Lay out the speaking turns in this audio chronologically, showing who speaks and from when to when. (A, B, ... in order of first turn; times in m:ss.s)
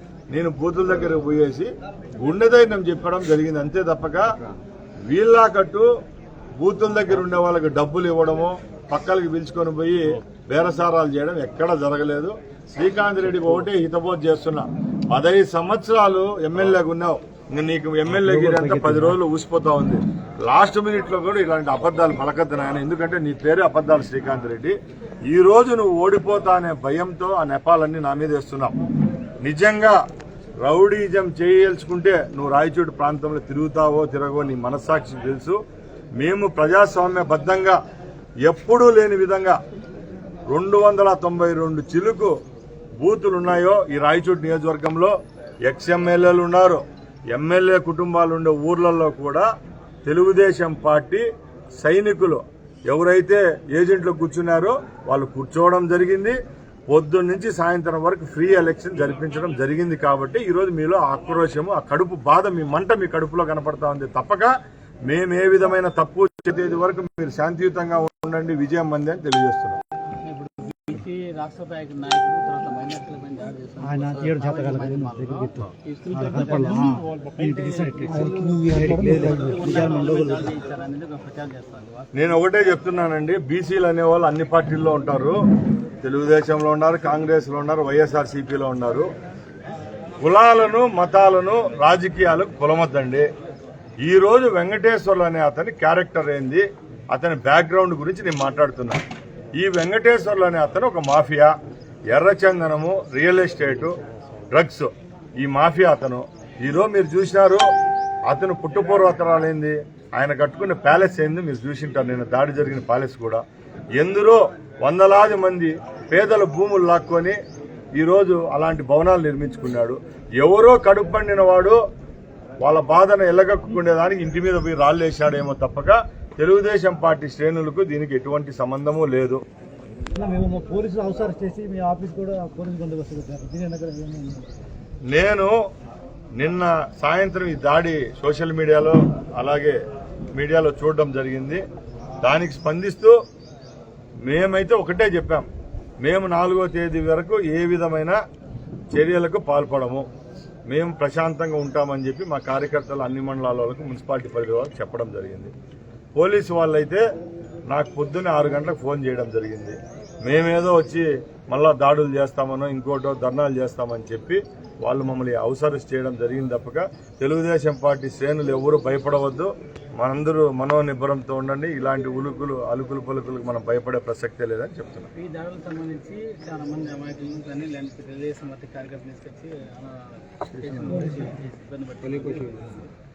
0:00.3-0:04.3 A
0:05.1-0:05.9 A
0:06.6-0:24.8 A
0:18.1-0:19.2 B
0:25.3-0:28.7 A
0:29.4-0:30.0 A
0:30.6-0:35.6 A
0:36.2-0:37.8 A
0:38.4-0:39.6 A
0:40.5-0:42.4 A
0:43.0-0:45.1 A
0:45.7-0:49.5 A
0:50.0-0:51.2 A
0:51.8-0:56.4 A
0:56.9-1:04.5 A
1:05.1-1:09.8 A
1:10.2-1:22.3 C
1:13.8-1:20.5 B
1:22.1-1:25.4 A
1:26.0-1:29.1 A
1:30.2-1:33.3 A
1:34.0-1:39.0 A
1:39.6-1:41.5 A
1:42.1-1:44.0 A
1:44.5-1:47.7 A
1:48.3-1:53.4 A
1:54.0-1:57.4 A
1:58.0-2:01.8 A
2:02.6-2:09.4 A
2:10.2-2:14.4 B
2:15.1-2:15.6 A
2:16.4-2:19.8 A
2:20.3-2:21.6 A
2:22.2-2:23.2 A
2:24.2-2:25.5 A
2:26.0-2:28.2 A
2:28.9-2:30.1 A
2:30.7-2:35.5 A
2:36.2-2:37.0 A
2:37.7-2:55.1 A
2:55.2-3:02.9 C
3:00.9-3:01.3 B